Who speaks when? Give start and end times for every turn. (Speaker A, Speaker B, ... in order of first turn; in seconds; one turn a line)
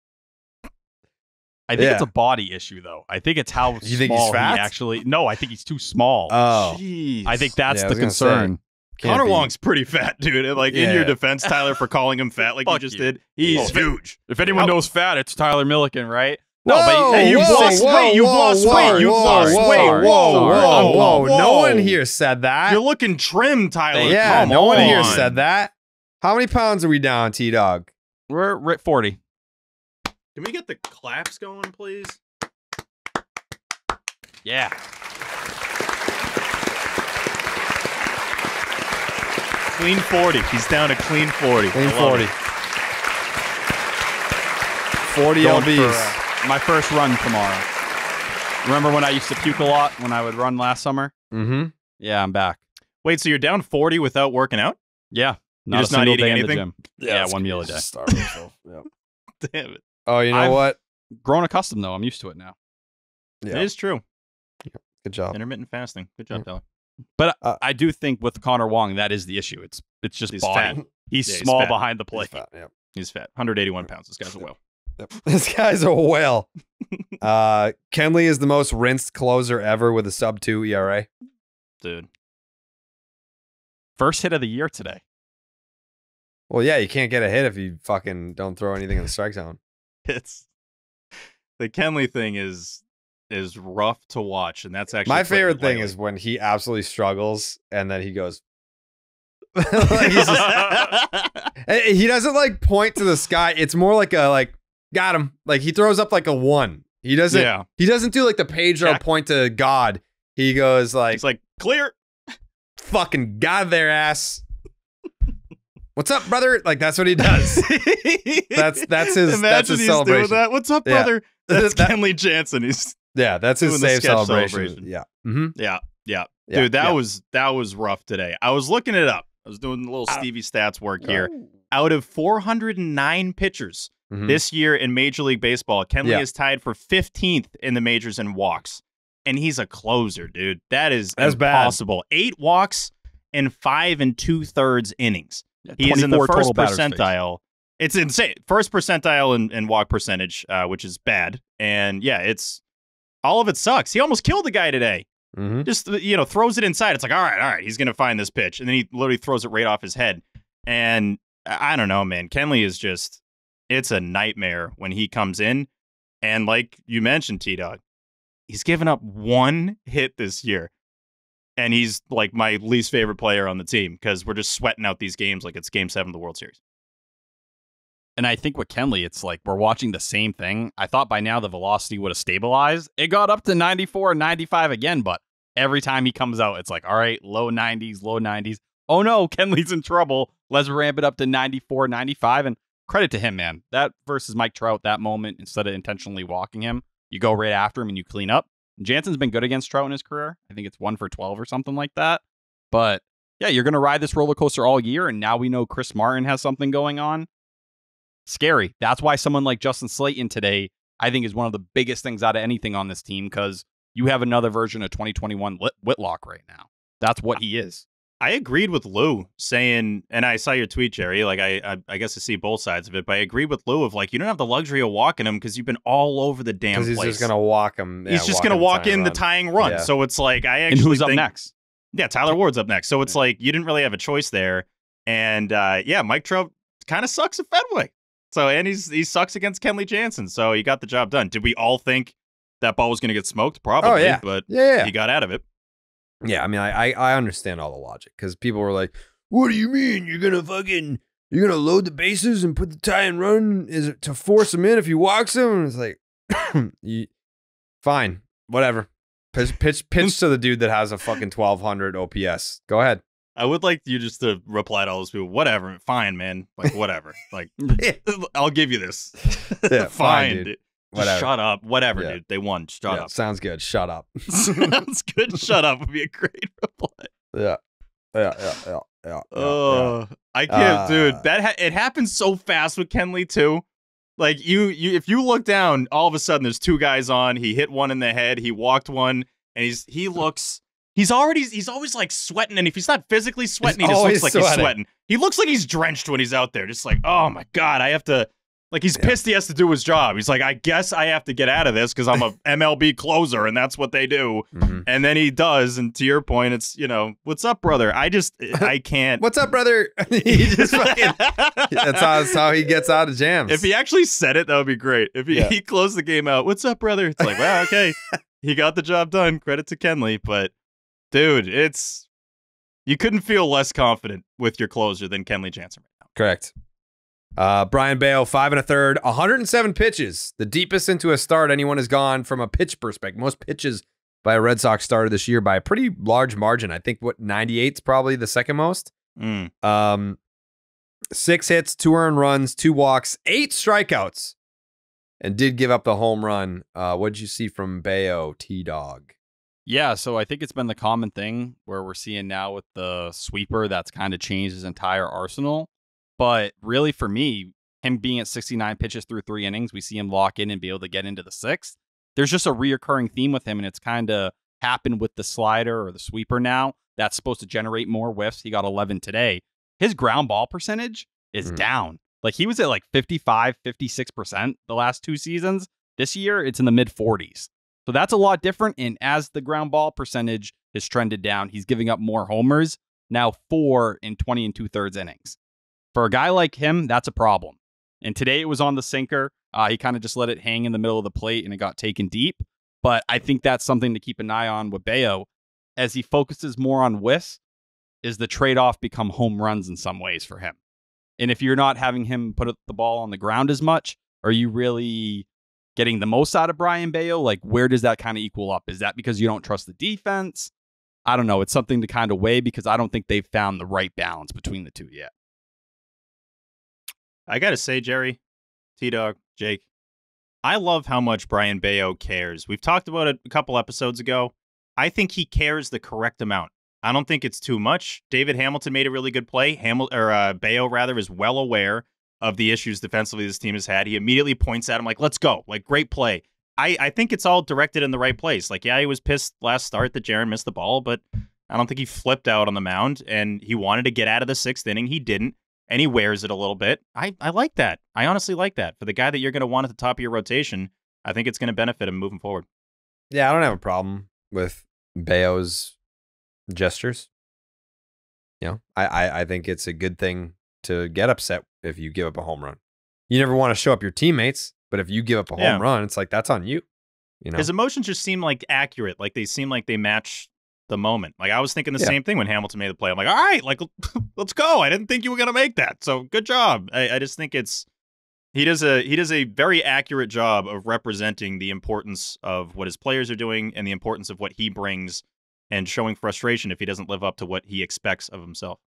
Speaker A: 1.7-6.3
Speaker B: 1.8-2.1
Speaker B: 3.8-4.7
Speaker B: 6.3-6.8
Speaker C: 6.5-7.5
Speaker A: 7.3-8.6
Speaker B: 7.7-9.5
Speaker C: 9.0-14.8
Speaker B: 10.7-11.2
Speaker A: 12.7-21.4
Speaker B: 13.4-13.8
Speaker B: 16.6-22.8
Speaker C: 17.1-22.0
Speaker C: 22.7-25.3
Speaker A: 23.9-25.3
Speaker B: 24.0-27.9
Speaker A: 28.3-29.2
Speaker C: 30.4-32.2
Speaker A: 34.5-34.8
Speaker C: 39.8-42.3
Speaker B: 41.7-42.3
Speaker B: 45.0-46.2
Speaker A: 45.4-47.7
Speaker A: 48.6-51.1
Speaker B: 51.3-51.7
Speaker A: 52.0-52.6
Speaker C: 53.0-54.8
Speaker A: 55.1-57.9
Speaker C: 55.7-56.6
Speaker B: 57.0-58.8
Speaker C: 58.1-58.4
Speaker C: 59.4-59.8
Speaker B: 60.1-60.8
Speaker A: 60.3-60.6
Speaker A: 61.2-62.5
Speaker B: 63.4-63.7
Speaker C: 63.5-64.0
Speaker B: 64.7-65.4
Speaker C: 65.3-66.6
Speaker A: 67.2-72.4
Speaker C: 70.3-71.8
Speaker B: 72.2-72.7
Speaker C: 73.0-74.6
Speaker B: 75.0-76.5
Speaker B: 77.2-81.1
Speaker C: 81.8-82.1
Speaker A: 84.0-85.0
Speaker B: 86.5-89.6
Speaker C: 90.1-90.5
Speaker C: 91.6-96.0
Speaker B: 95.1-98.4
Speaker B: 99.6-100.9
Speaker C: 99.8-101.5
Speaker B: 101.6-111.2
Speaker C: 107.3-107.7
Speaker C: 111.1-112.0
Speaker B: 112.8-114.4
Speaker B: 116.0-117.8
Speaker C: 117.2-123.0
Speaker B: 118.5-122.0
Speaker B: 123.2-125.6
Speaker C: 123.6-124.9
Speaker C: 125.6-152.6
Speaker B: 126.5-127.0
Speaker B: 131.0-131.5
Speaker B: 134.1-134.4
Speaker B: 141.2-141.8
Speaker A: 145.7-147.1
Speaker C: 153.2-155.1
Speaker B: 155.3-155.7
Speaker C: 155.6-165.7
Speaker C: 166.2-167.8
Speaker C: 168.5-170.7
Speaker C: 171.6-176.6
Speaker A: 178.2-207.3
Speaker A: 208.3-217.8
Speaker C: 218.2-227.3
Speaker B: 226.7-229.9
Speaker C: 228.1-231.2
Speaker A: 230.7-231.5
Speaker C: 231.9-245.4
Speaker B: 243.8-244.9
Speaker B: 246.2-257.1
Speaker B: 257.8-263.0
Speaker C: 263.4-273.1
Speaker B: 269.7-271.3
Speaker B: 272.9-274.8
Speaker C: 274.3-277.1
Speaker B: 277.3-277.6
Speaker B: 278.1-280.0
Speaker C: 279.3-283.6
Speaker B: 280.5-281.2
Speaker C: 284.2-309.2
Speaker B: 293.6-294.8
Speaker B: 304.6-304.8
Speaker B: 309.2-313.6
Speaker C: 310.3-312.4
Speaker C: 313.5-320.5
Speaker B: 317.2-317.7
Speaker C: 321.1-322.1
Speaker C: 322.9-326.0
Speaker B: 326.2-326.5
Speaker B: 327.4-338.9
Speaker C: 339.2-339.5
Speaker B: 339.6-340.2
Speaker B: 341.1-344.4
Speaker B: 345.2-349.1
Speaker A: 349.7-385.4
Speaker A: 385.9-397.4
Speaker A: 398.0-400.6
Speaker A: 401.2-410.5
Speaker A: 411.1-415.1
Speaker C: 417.3-418.2
Speaker C: 418.8-419.6
Speaker C: 420.4-452.5
Speaker B: 453.1-455.7
Speaker B: 456.5-457.1
Speaker B: 458.4-462.6
Speaker B: 463.1-466.6
Speaker C: 465.4-465.6
Speaker B: 467.2-467.5
Speaker C: 467.4-477.7
Speaker C: 478.3-488.6